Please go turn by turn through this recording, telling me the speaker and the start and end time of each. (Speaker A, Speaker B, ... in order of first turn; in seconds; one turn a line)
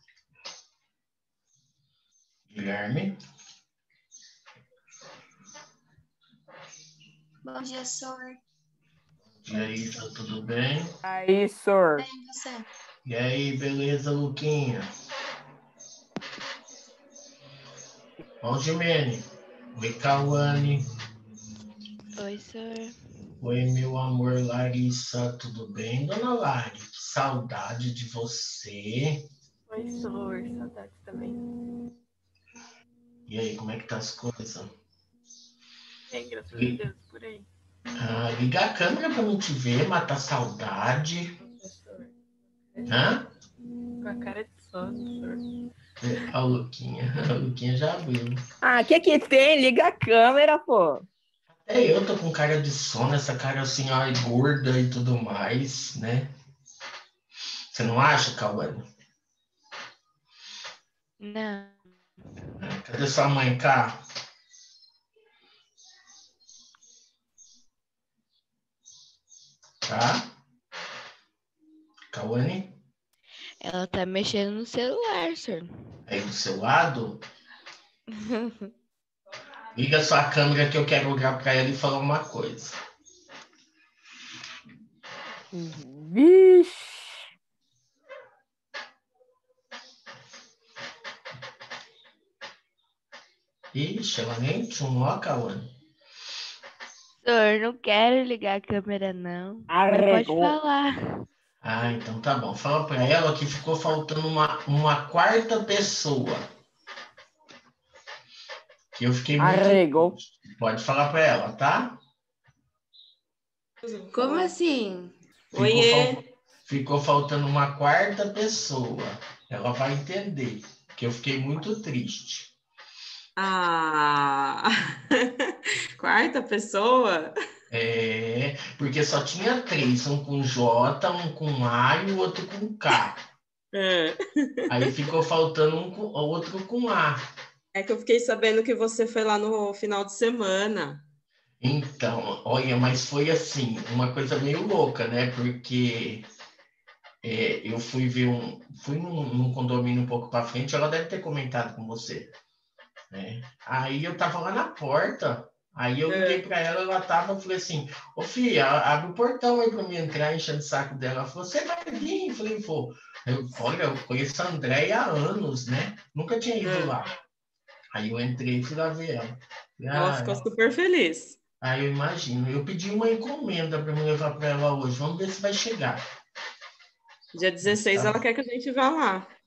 Speaker A: 2.5-3.1
Speaker B: 7.4-8.4
Speaker A: 9.4-10.9
Speaker C: 11.0-12.1
Speaker B: 11.9-12.6
Speaker A: 13.0-14.9
Speaker A: 18.4-20.8
Speaker D: 22.1-22.9
Speaker A: 23.4-29.3
Speaker E: 29.7-31.4
Speaker A: 33.3-34.7
Speaker E: 36.1-37.5
Speaker A: 36.5-36.8
Speaker A: 38.0-41.3
Speaker E: 41.4-42.9
Speaker A: 42.9-43.3
Speaker E: 44.0-45.4
Speaker A: 46.0-48.4
Speaker C: 48.6-51.0
Speaker A: 51.6-56.3
Speaker A: 57.7-58.8
Speaker D: 61.2-62.0
Speaker A: 62.6-64.0
Speaker A: 69.8-70.3
Speaker A: 72.1-72.8
Speaker D: 73.6-75.7
Speaker A: 76.1-77.2
Speaker D: 78.1-78.7
Speaker A: 79.8-82.8
Speaker C: 85.5-87.2
Speaker A: 93.7-95.7
Speaker D: 97.2-101.0
Speaker C: 99.7-100.5
Speaker A: 101.6-106.4
Speaker A: 108.9-112.0
Speaker C: 109.4-110.2
Speaker F: 113.8-114.5
Speaker D: 114.1-115.1
Speaker B: 114.2-114.5
Speaker F: 115.5-116.2
Speaker A: 115.5-122.5
Speaker F: 123.4-127.3
Speaker A: 127.7-133.2
Speaker F: 133.7-134.9
Speaker A: 134.7-137.2
Speaker F: 137.7-141.0
Speaker A: 141.6-146.2
Speaker A: 147.2-152.3
Speaker A: 153.1-167.1
Speaker F: 156.1-156.4
Speaker F: 166.6-166.9
Speaker A: 167.9-170.4
Speaker F: 169.9-171.4
Speaker A: 171.6-176.0
Speaker F: 177.3-179.3
Speaker A: 177.6-178.2